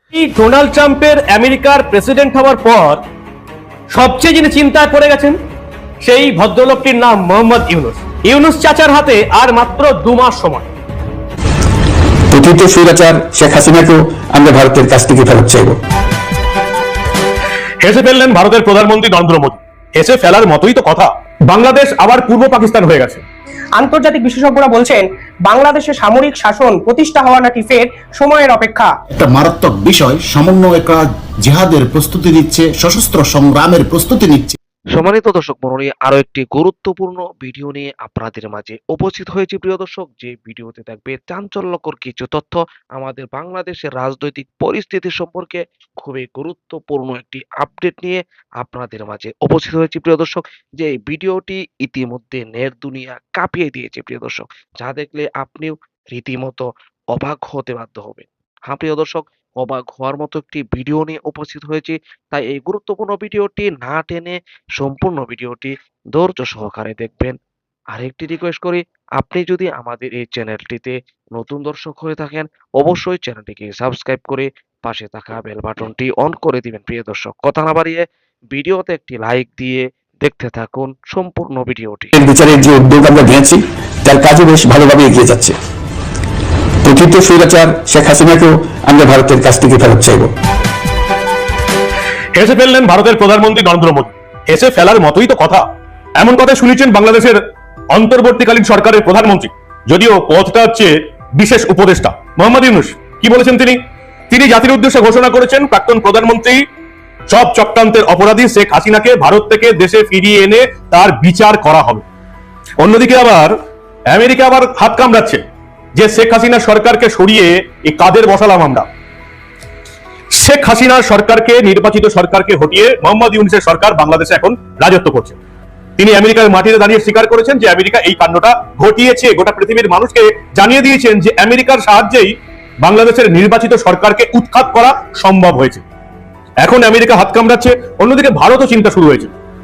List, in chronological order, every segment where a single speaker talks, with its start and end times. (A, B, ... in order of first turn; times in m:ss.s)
0:00.1-0:03.0 A
0:03.9-0:05.4 A
0:06.0-0:10.6 A
0:12.3-0:15.8 B
0:17.8-0:23.2 A
0:23.8-0:28.9 C
0:29.1-0:34.6 D
0:34.9-1:07.4 E
1:07.9-1:22.1 E
1:22.1-1:25.6 B
1:26.8-1:30.3 B
1:32.3-1:35.6 A
1:36.2-1:37.4 A
1:37.9-1:43.8 A
1:44.3-1:46.6 A
1:47.3-1:52.0 A
1:52.8-1:53.5 A
1:54.1-1:55.4 A
1:56.0-1:58.9 A
2:00.3-2:05.4 A
2:06.0-2:15.8 A
2:16.6-2:19.3 A